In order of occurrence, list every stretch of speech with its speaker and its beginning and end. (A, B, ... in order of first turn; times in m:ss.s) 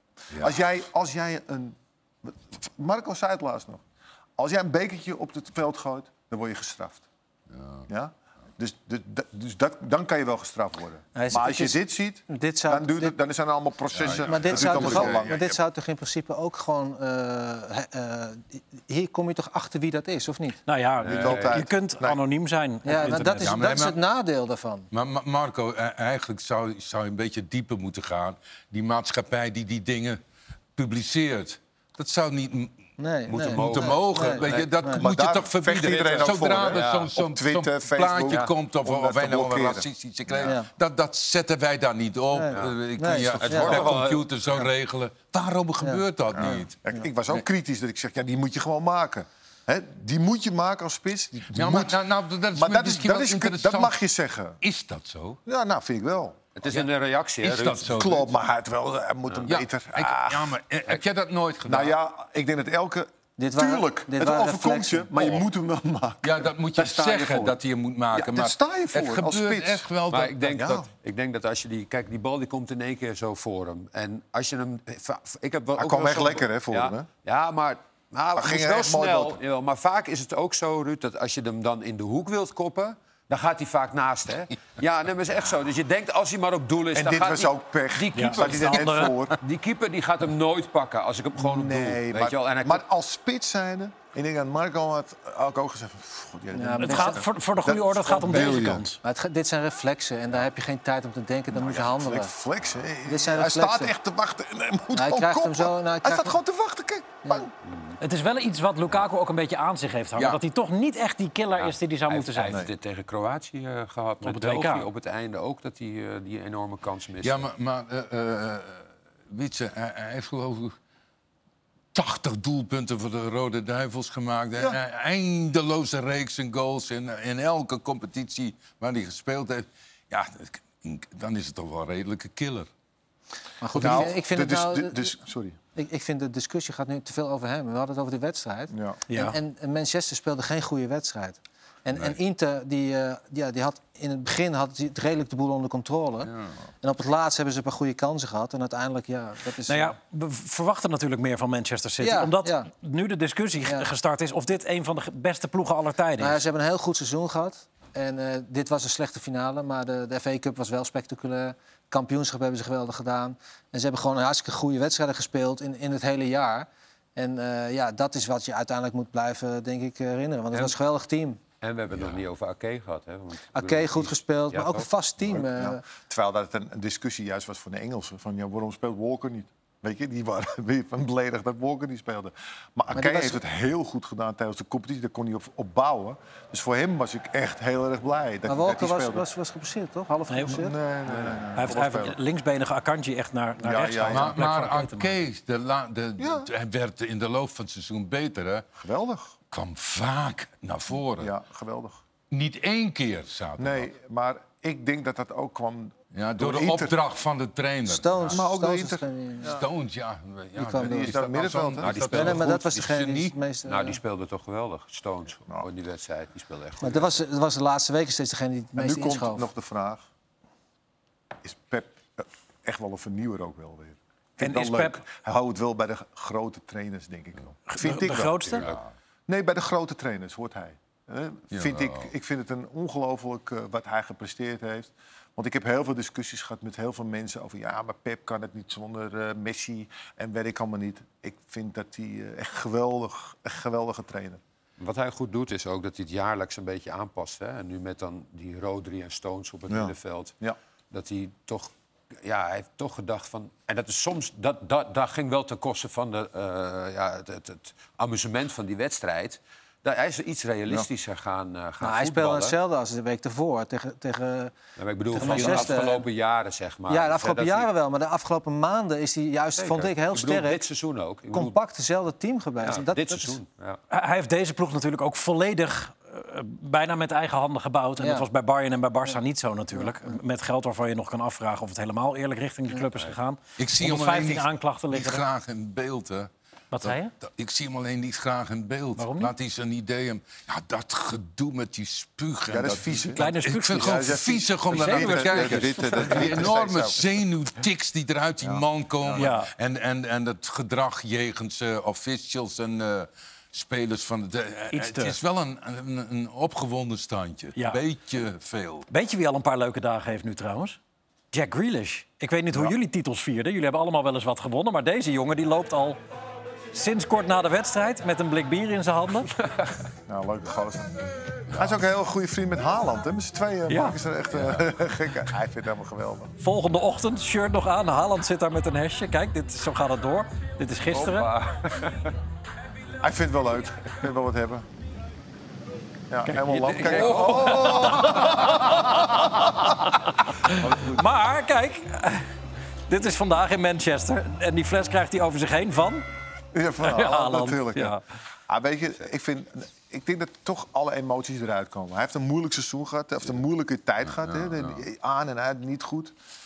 0:00.3-0:00.6 A
0:00.4-0:03.8 B
0:04.4-0:07.0 B
0:07.5-0:07.8 A
0:07.9-0:15.4 B
0:11.2-0:13.1 C
0:13.9-0:15.5 A
0:14.2-0:20.6 C
0:20.7-0:23.6 D
0:21.0-0:21.6 E
0:21.0-0:22.2 B
0:22.8-0:24.9 C
0:23.4-0:24.0 A
0:24.9-0:30.2 A
0:30.8-0:32.7 A
0:33.0-0:35.0 C
0:33.3-0:46.8 A
0:33.3-0:34.7 E
0:34.9-0:40.5 B
0:35.9-0:37.1 E
0:42.3-0:43.9 C
0:43.3-0:44.2 E
0:46.3-0:52.0 B
0:51.5-0:54.0 A
0:52.5-0:54.6 B
0:54.6-0:55.4 A
0:55.4-0:56.4 B
0:56.6-0:57.9 E
0:57.4-0:58.3 A
0:57.8-1:00.5 B
0:59.4-1:02.0 A
1:01.6-1:07.6 B
1:03.4-1:05.3 C
1:06.2-1:10.4 A
1:08.1-1:09.9 B
1:10.1-1:32.8 E
1:10.5-1:10.9 B
1:15.8-1:17.1 B
1:18.3-1:19.4 B
1:26.9-1:29.4 B
1:28.1-1:29.1 D
1:31.4-1:38.8 B
1:36.5-1:37.3 C
1:36.8-1:39.0 D
1:39.0-1:42.3 C
1:41.5-1:47.5 B
1:43.0-1:43.9 C
1:44.9-1:46.4 C
1:47.6-1:48.0 E
1:48.0-1:52.6 D
1:51.6-1:57.5 E
1:54.2-1:54.9 D
1:57.2-2:00.7 A
2:01.9-2:12.7 A
2:13.6-2:15.1 C
2:13.8-2:15.6 B
2:13.8-2:14.1 A
2:15.7-2:29.9 C
2:18.7-2:19.0 B
2:19.1-2:19.4 D
2:26.3-2:26.5 A
2:29.7-2:36.4 D
2:32.0-2:32.7 C
2:36.2-2:51.4 C
2:51.6-2:54.9 E
2:51.9-2:52.2 A
2:53.5-2:55.8 C
2:55.2-3:09.3 B
3:02.9-3:03.4 C
3:08.5-3:10.8 C
3:10.3-3:10.6 D
3:10.4-3:12.2 B
3:11.5-3:15.1 D
3:13.6-3:14.4 B
3:14.1-3:18.6 A
3:16.2-3:16.5 B
3:18.8-3:19.4 B
3:19.5-3:21.3 A
3:21.2-3:22.0 B
3:22.3-3:23.9 A
3:23.6-3:27.0 B
3:26.1-3:28.4 A
3:27.8-3:29.6 C
3:28.2-3:29.6 B
3:29.5-3:33.4 A
3:30.6-3:31.2 C
3:30.8-3:32.3 B
3:31.8-3:32.6 E
3:32.1-3:34.0 C
3:33.6-3:37.2 E
3:36.8-3:39.4 C
3:38.8-3:40.0 B
3:41.4-3:48.7 B
3:44.4-3:45.0 D
3:47.7-3:48.6 D
3:49.3-4:04.4 B
3:51.5-3:52.1 A
4:04.8-4:10.3 E
4:09.7-4:10.6 B
4:10.9-4:22.6 E
4:21.8-4:24.6 C
4:24.8-4:27.7 E
4:25.1-4:26.1 C
4:25.3-4:25.6 D
4:26.9-4:30.6 C
4:29.6-4:31.6 E
4:31.3-4:33.4 C
4:32.6-4:33.8 E
4:33.9-4:45.2 D
4:38.0-4:38.2 C
4:39.8-4:40.1 C
4:43.6-4:46.3 A
4:46.7-4:47.1 D
4:46.8-5:08.8 A
4:49.0-4:49.3 D
4:52.5-4:57.1 B
4:53.1-4:54.1 D
4:54.7-4:56.2 D
4:58.4-4:59.3 B
4:59.1-4:59.5 D
5:04.7-5:05.2 D
5:08.9-5:10.8 D
5:11.3-5:16.0 D
5:16.7-5:19.3 D
5:20.1-5:21.0 B
5:21.5-5:26.3 B
5:23.7-5:24.0 D
5:26.4-5:31.3 D
5:30.9-5:32.1 E
5:33.0-5:34.7 B
5:36.1-5:39.0 B
5:36.3-5:39.9 D
5:36.8-5:37.8 E
5:40.4-5:42.2 D
5:40.5-5:41.0 B
5:42.9-5:46.0 D
5:46.5-5:56.1 B
5:46.8-5:48.0 D
5:54.2-5:54.8 A